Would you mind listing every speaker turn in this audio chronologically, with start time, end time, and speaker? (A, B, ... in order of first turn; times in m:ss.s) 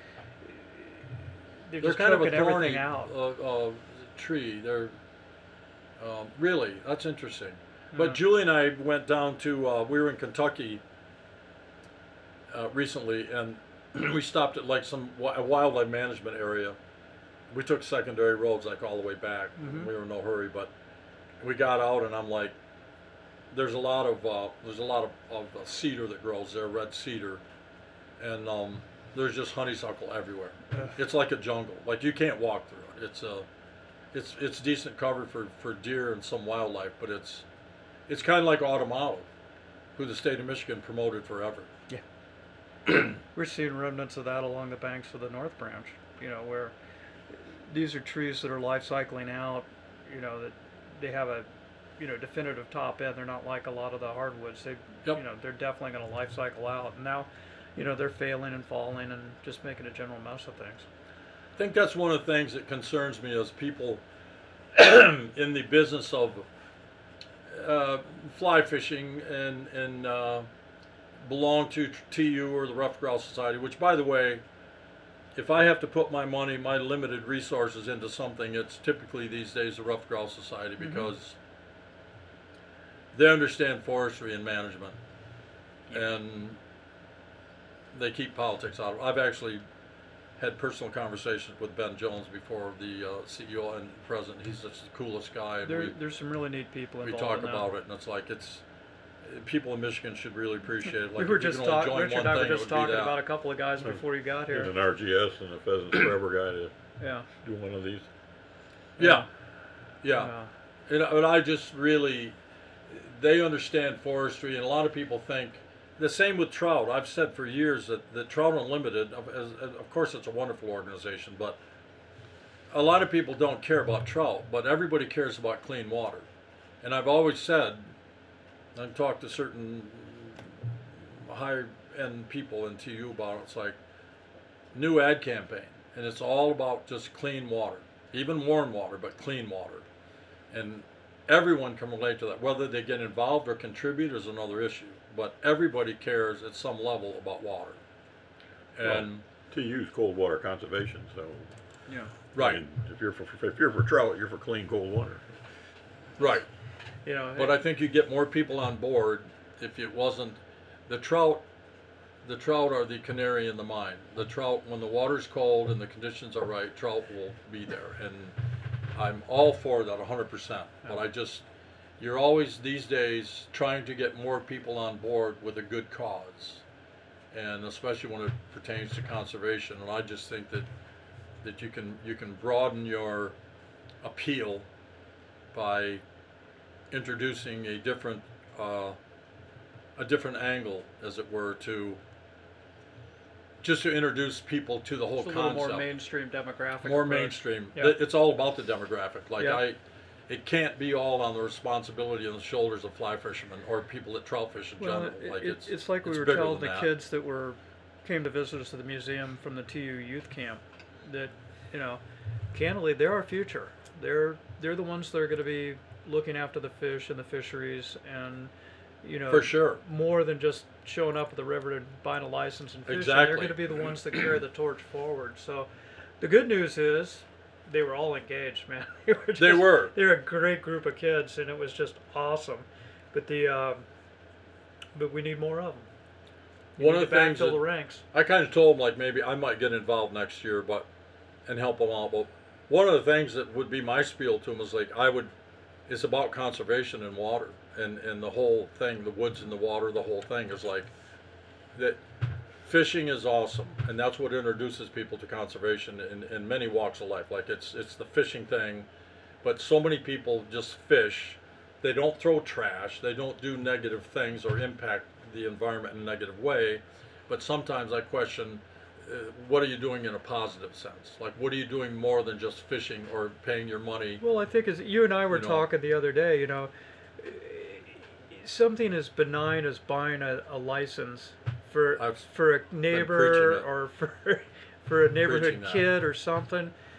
0:00.4-0:03.1 A
0:01.8-0:04.9 B
0:06.0-0:10.8 B
0:07.9-0:08.2 A
0:12.5-0:16.8 B
0:17.5-0:20.7 B
0:19.6-0:19.9 A
0:21.4-0:22.5 B
0:23.5-0:27.4 B
0:28.2-0:33.5 B
0:34.1-0:37.4 B
0:38.1-0:39.3 B
0:40.0-0:41.7 B
0:43.3-0:46.7 A
0:47.3-0:51.5 A
0:52.0-1:00.8 A
1:01.6-1:04.0 B
1:04.7-1:06.4 B
1:07.5-1:10.5 B
1:11.2-1:14.4 B
1:15.4-1:21.4 B
1:20.8-1:21.1 A
1:23.1-1:25.0 B
1:25.9-1:26.6 B
1:27.9-1:29.6 B
1:30.4-1:36.0 B
1:35.6-1:37.7 A
1:37.0-1:38.6 B
1:39.2-1:43.2 B
1:41.2-1:44.7 A
1:43.8-1:46.7 C
1:47.0-1:47.2 A
1:47.4-1:48.1 C
1:49.0-1:49.2 A
1:49.0-1:49.2 B
1:50.0-1:50.3 B
1:50.2-1:50.5 A
1:50.9-1:52.3 B
1:52.9-2:01.6 B
2:02.7-2:06.2 B
2:06.8-2:07.9 B
2:08.7-2:10.6 B
2:11.1-2:13.8 B
2:14.7-2:19.9 B
2:20.5-2:27.8 B
2:28.7-2:29.2 B
2:28.8-2:31.5 C
2:32.3-2:32.6 B
2:32.4-2:35.3 C
2:36.2-2:36.4 B
2:37.0-2:37.6 A
2:37.4-2:41.4 B
2:42.2-2:48.4 B
2:48.9-2:51.4 B
2:52.0-2:56.6 B
2:57.3-3:00.7 B
3:01.4-3:03.4 B
3:04.0-3:04.7 B
3:05.5-3:06.0 B
3:06.9-3:09.0 B
3:10.0-3:12.0 B
3:13.6-3:15.9 B
3:15.2-3:18.0 A
3:16.8-3:26.9 B
3:19.4-3:19.6 A
3:24.8-3:32.0 A
3:32.5-3:38.5 A
3:39.0-3:45.7 A
3:39.3-3:39.8 B
3:42.9-3:43.8 B
3:46.2-3:53.8 A
3:49.4-3:49.9 B
3:54.9-3:55.9 A
3:56.8-3:58.0 A
3:56.8-4:00.9 B
4:01.4-4:05.3 B
4:05.9-4:10.9 B
4:11.7-4:12.0 B
4:12.6-4:18.9 B
4:19.4-4:34.2 B
4:34.2-4:46.7 A
4:35.3-4:35.7 B
4:42.0-4:42.3 B
4:42.9-4:43.7 B
4:45.2-4:45.9 B